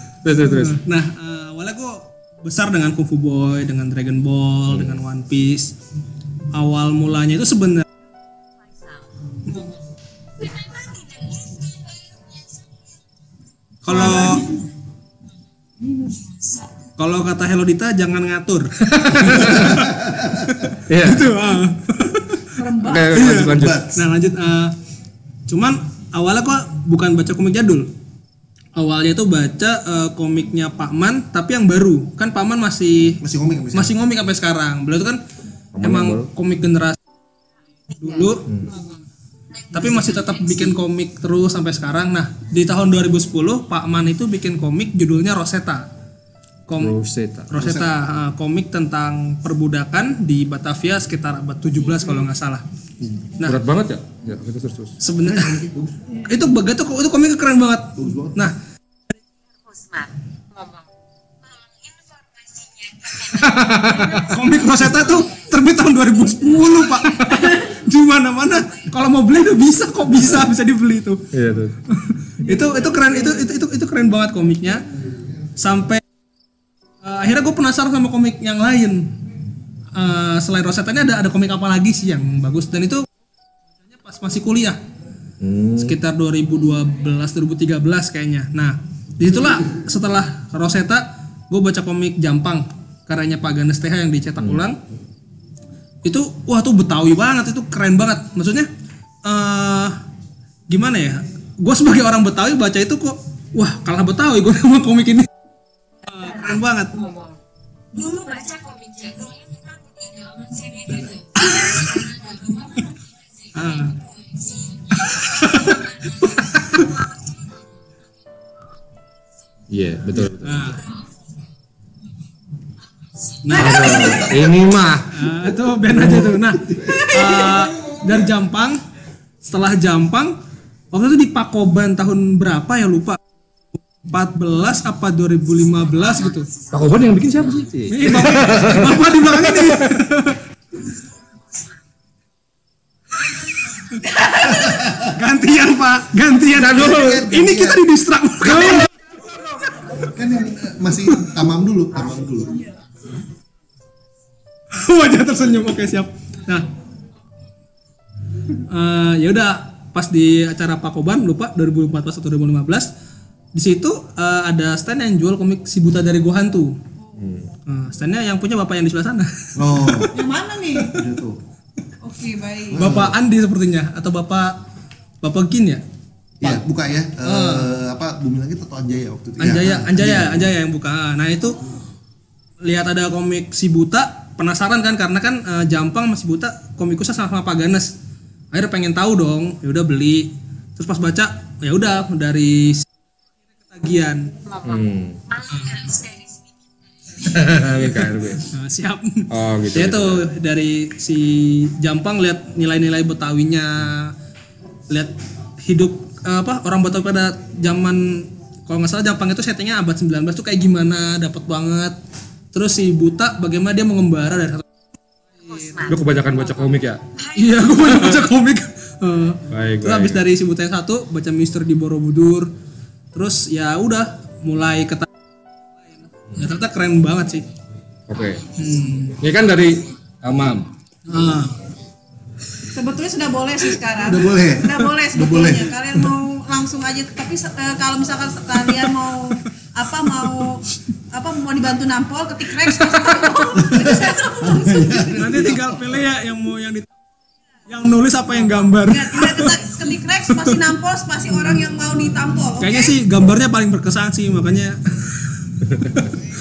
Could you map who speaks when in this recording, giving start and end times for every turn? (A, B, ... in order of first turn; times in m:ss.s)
0:00.2-0:00.8 A
0:00.4-0:05.7 B
0:04.7-0:05.0 A
0:06.5-0:07.8 B
0:10.5-0:12.2 C
0:13.8-0:14.5 B
0:13.9-0:14.5 D
0:15.8-0:16.2 D
0:17.0-0:22.5 B
0:18.8-0:19.8 A
0:19.8-0:20.3 E
0:20.9-0:21.3 A
0:22.5-0:23.1 D
0:22.7-0:23.8 A
0:23.1-0:24.7 B
0:23.2-0:24.0 E
0:25.5-0:27.9 B
0:28.7-0:33.2 B
0:33.2-0:33.9 E
0:33.7-0:35.2 B
0:35.7-0:36.3 A
0:35.8-0:37.0 B
0:37.9-0:38.5 B
0:38.4-0:38.7 A
0:39.7-0:45.9 B
0:46.7-0:46.9 B
0:46.7-0:47.7 A
0:47.5-0:52.6 B
0:47.6-0:47.9 E
0:53.0-0:55.0 A
0:55.0-0:55.6 B
0:55.2-0:55.9 E
0:56.2-0:58.5 B
0:58.0-0:58.5 E
0:59.8-1:00.0 C
1:01.6-1:03.5 C
1:03.3-1:04.3 A
1:04.2-1:11.2 B
1:11.3-1:11.8 A
1:11.9-1:14.8 B
1:12.5-1:12.7 D
1:15.6-1:16.0 B
1:17.0-1:19.1 B
1:19.9-1:23.0 B
1:23.8-1:24.8 B
1:25.4-1:26.0 A
1:25.8-1:34.8 B
1:36.0-1:38.7 B
1:39.2-1:40.0 B
1:40.7-1:45.3 B
1:46.1-1:47.0 B
1:47.9-1:53.0 C
1:51.4-1:52.0 B
1:53.5-1:53.9 B
1:53.6-1:56.1 C
1:55.1-1:55.8 B
1:59.7-2:00.8 A
2:00.4-2:00.8 B
2:03.4-2:04.3 B
2:03.5-2:05.1 A
2:05.1-2:08.8 B
2:05.9-2:06.4 A
2:09.4-2:10.3 B
2:10.9-2:13.2 B
2:14.0-2:16.5 B
2:16.7-2:19.9 A
2:17.9-2:20.4 B
2:24.0-2:24.8 D
2:24.7-2:25.1 E
2:25.0-2:28.9 B
2:26.5-2:27.2 A
2:26.6-2:27.8 E
2:28.5-2:28.8 E
2:30.0-2:32.6 E
2:34.7-2:36.7 B
2:38.6-2:42.9 B
2:43.5-2:46.8 B
2:47.0-2:47.3 D
2:47.2-2:47.5 A
2:47.6-2:50.1 B
2:49.6-2:50.1 E
2:50.1-2:51.0 D
2:50.8-2:51.4 E
2:52.0-2:52.8 D
2:52.7-2:53.1 E
2:52.7-2:54.6 B
2:55.2-2:55.8 B
2:56.4-3:00.5 E
2:57.2-2:57.7 B
2:59.4-3:01.6 B
3:02.6-3:07.9 B
3:08.5-3:12.9 B
3:13.5-3:14.3 B
3:14.6-3:15.2 A
3:15.5-3:15.9 B
3:15.9-3:16.4 C
3:17.2-3:18.5 A
3:18.5-3:24.1 B
3:19.3-3:20.3 A
3:24.9-3:32.0 B
3:32.5-3:34.6 B
3:35.4-3:35.8 B
3:35.8-3:37.0 A
3:37.3-3:42.5 B
3:37.8-3:38.2 A
3:39.5-3:40.2 A
3:43.1-3:45.1 B
3:45.9-3:47.5 B
3:48.1-3:48.5 A
3:48.6-3:49.2 B
3:49.1-3:50.7 A
3:51.1-3:51.6 B
3:52.7-4:05.3 D
3:54.0-3:55.7 E
4:03.5-4:06.0 E
4:05.0-4:06.9 B
4:07.7-4:09.7 B
4:08.6-4:13.0 D
4:12.6-4:16.1 B